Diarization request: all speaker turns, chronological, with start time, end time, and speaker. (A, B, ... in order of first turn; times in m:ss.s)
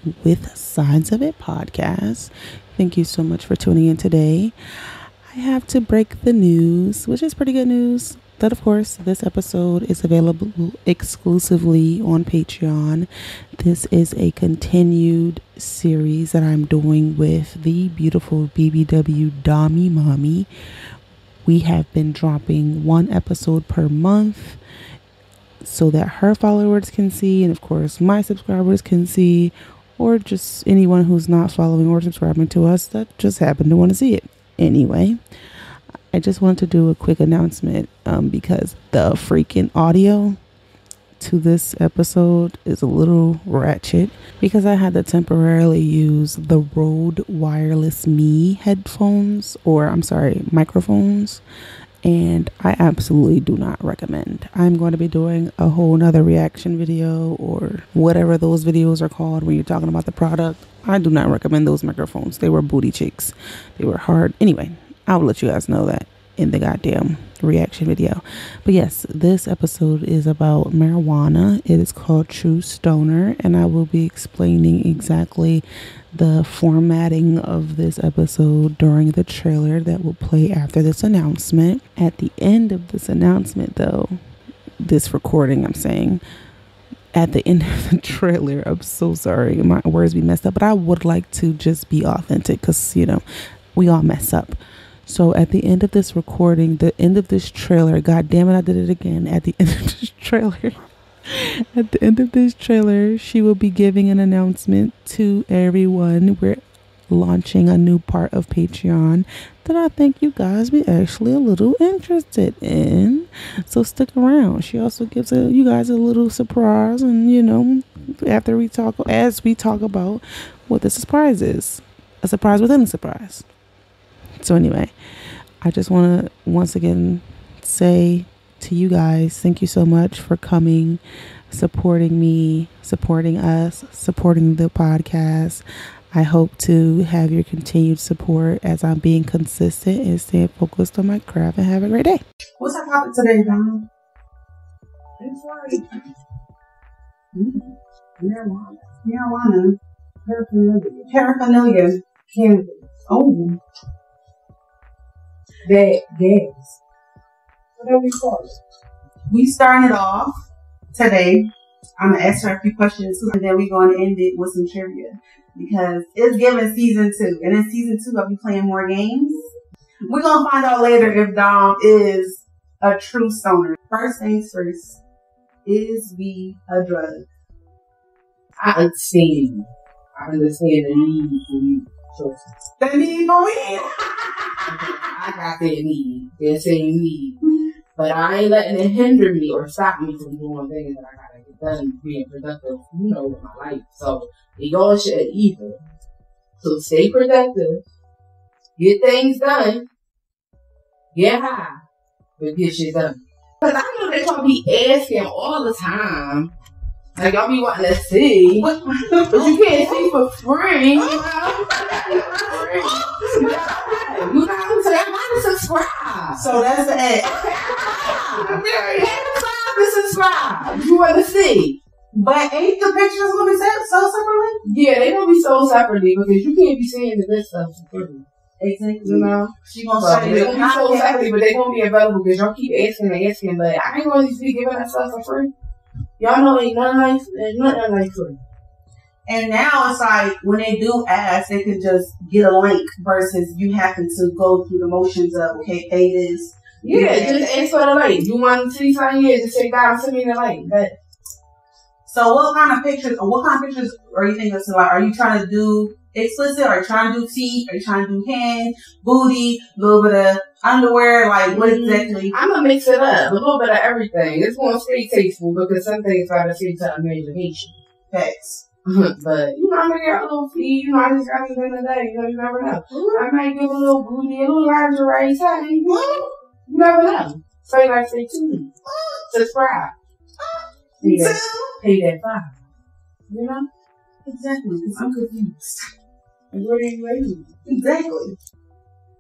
0:00.2-0:04.5 A
0:05.3-0:20.5 A
0:21.4-0:24.6 A
0:25.6-0:35.2 A
0:36.1-0:40.4 A
0:41.2-0:51.4 A
0:52.0-1:24.2 A
1:24.8-1:26.2 A
1:27.1-1:33.2 A
1:33.8-1:40.8 A
1:41.7-2:03.5 A
2:04.4-2:04.9 A
2:05.6-2:22.2 A
2:22.6-2:23.9 B
2:25.2-2:25.9 B
2:27.3-2:32.0 B
2:32.3-2:32.9 C
2:33.1-2:33.6 B
2:35.6-2:36.8 C
2:37.8-2:38.6 C
2:39.3-2:40.4 B
2:40.9-2:49.5 B
2:50.1-2:55.0 B
2:55.6-2:57.3 B
2:58.6-3:02.6 C
3:02.8-3:04.8 B
3:04.7-3:07.4 C
3:08.0-3:15.8 C
3:16.6-3:17.8 C
3:18.8-3:19.9 C
3:21.1-3:21.8 C
3:22.4-3:26.5 C
3:27.2-3:28.7 C
3:28.6-3:30.1 B
3:29.3-3:36.4 C
3:31.0-3:33.6 B
3:36.3-3:38.6 B
3:37.2-3:41.8 C
3:42.1-3:44.6 B
3:44.6-3:48.2 C
3:48.6-3:51.3 B
3:49.0-3:55.5 C
3:56.2-3:58.4 C
3:59.3-4:07.5 B
4:06.8-4:10.9 C
4:12.1-4:22.4 B
4:21.5-4:27.8 C
4:28.1-4:28.6 B
4:28.9-4:38.7 C
4:33.0-4:33.2 B
4:35.9-4:36.4 B
4:38.8-4:39.3 B
4:39.3-4:39.9 C
4:40.4-4:41.8 B
4:41.0-4:42.6 C
4:43.3-4:43.7 C
4:44.2-4:45.8 B
4:46.5-4:47.5 C
4:47.7-4:48.4 B